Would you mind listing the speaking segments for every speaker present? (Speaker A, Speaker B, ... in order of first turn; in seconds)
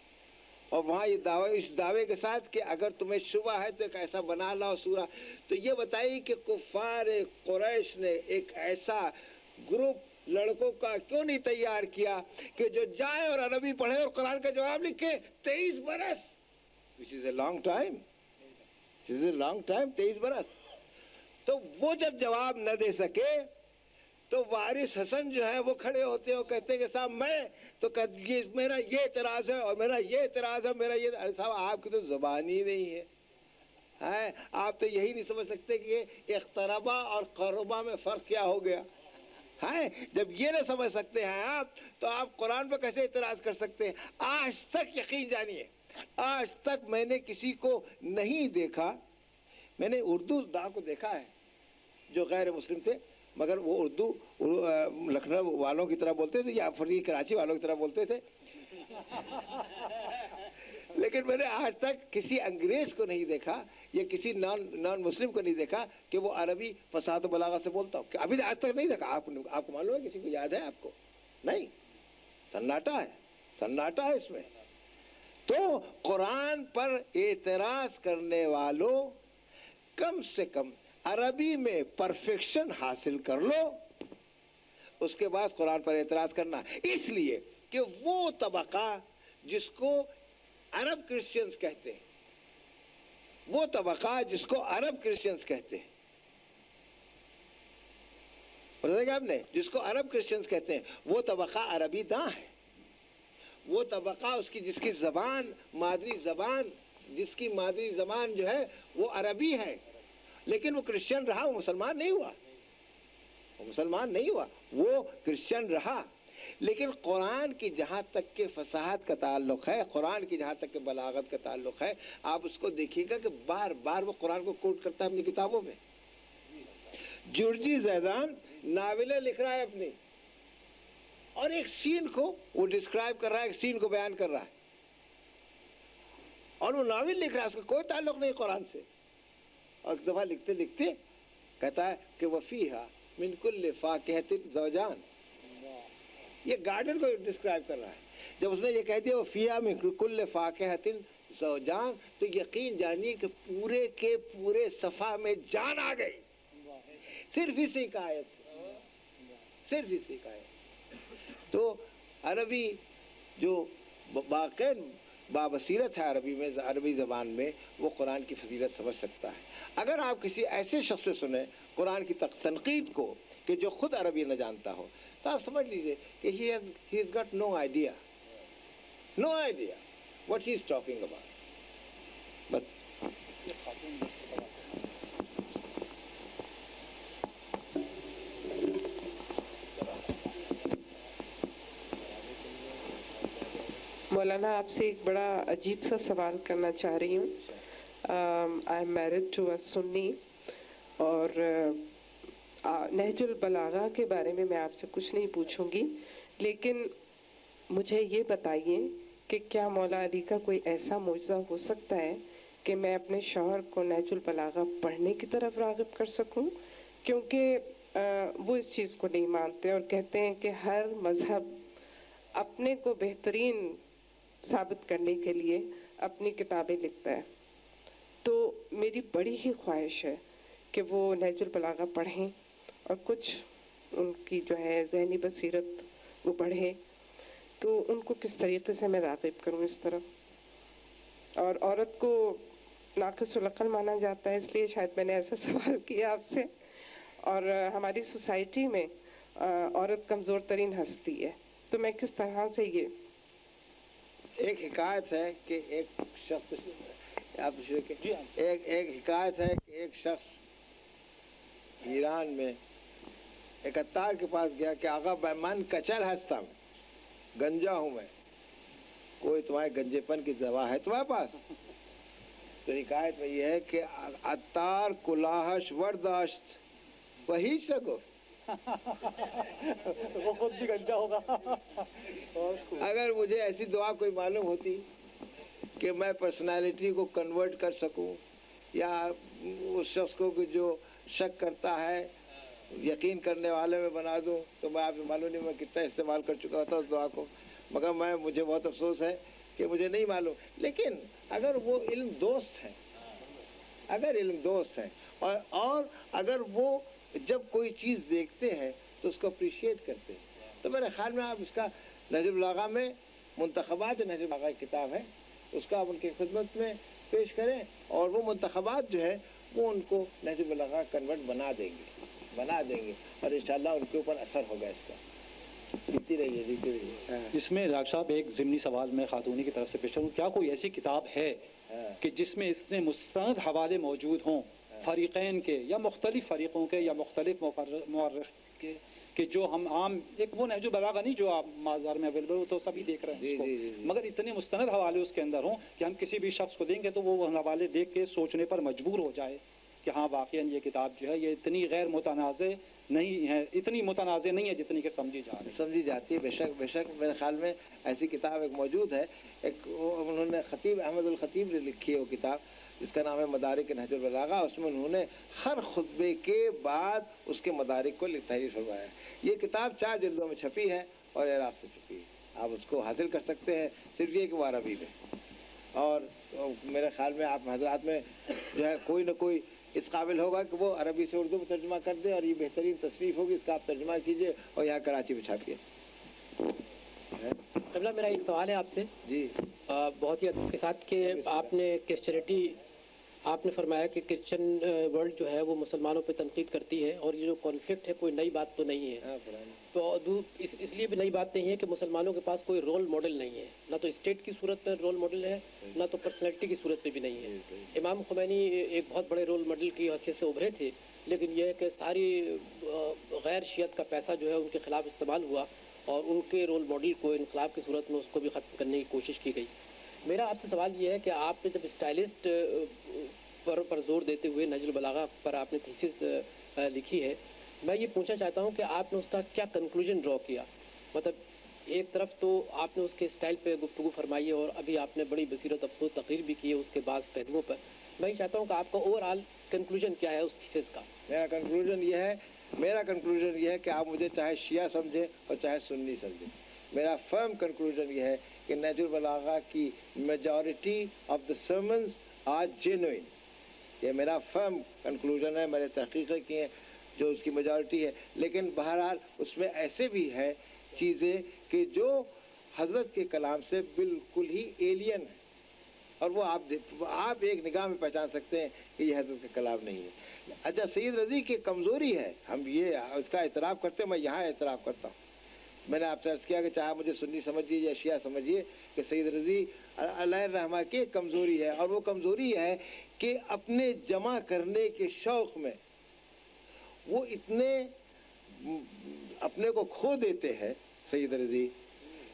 Speaker A: 0.7-16.3, 17.0-18.0, 19.0-20.5, 21.4-23.5, 24.3-33.1, 34.0-38.9, 39.6-49.0, 49.8-51.3, 52.1-58.2, 58.9-59.6, 60.9-71.7, 72.5-74.5, 75.5-79.2, 80.0-83.8, 85.0-90.1, 90.7-92.0, 93.5-95.9, 98.8-102.5, 103.7-109.8, 110.5-112.4, 113.6-116.1, 116.6-125.8, 127.3-130.0, 131.3-134.5, 136.6-138.8, 139.8-141.0, 141.6-145.0, 146.4-156.2, 157.2-158.6, 159.7-160.5, 161.5-162.8, 163.4-178.0, 179.2-181.2, 254.4-260.4, 261.8-262.6, 263.6-266.6, 267.4-268.1, 269.2-271.4, 272.6-276.6, 277.3-278.1, 282.8-284.9, 285.8-292.1, 292.7-302.8, 303.9-325.0, 325.9-327.3, 343.2-343.9, 355.5-374.9, 375.7-385.6, 389.0-389.4, 391.0-391.5, 399.0-399.6, 407.3-407.7, 441.1-453.1, 453.8-465.2, 466.0-475.0, 475.6-485.6, 486.9-487.7, 488.3-491.5
Speaker B: 183.4-184.8, 189.8-190.8, 278.6-282.9, 327.3-331.4, 332.0-355.6
Speaker C: 194.1-200.2, 201.0-201.9, 202.6-206.9, 207.7-221.6, 222.3-223.8, 224.4-227.3, 228.2-232.3, 232.8-236.8, 237.6-240.1, 241.4-246.5, 247.2-252.9
Speaker D: 387.7-388.9, 389.7-392.6, 393.2-399.0, 399.7-419.5, 420.1-440.9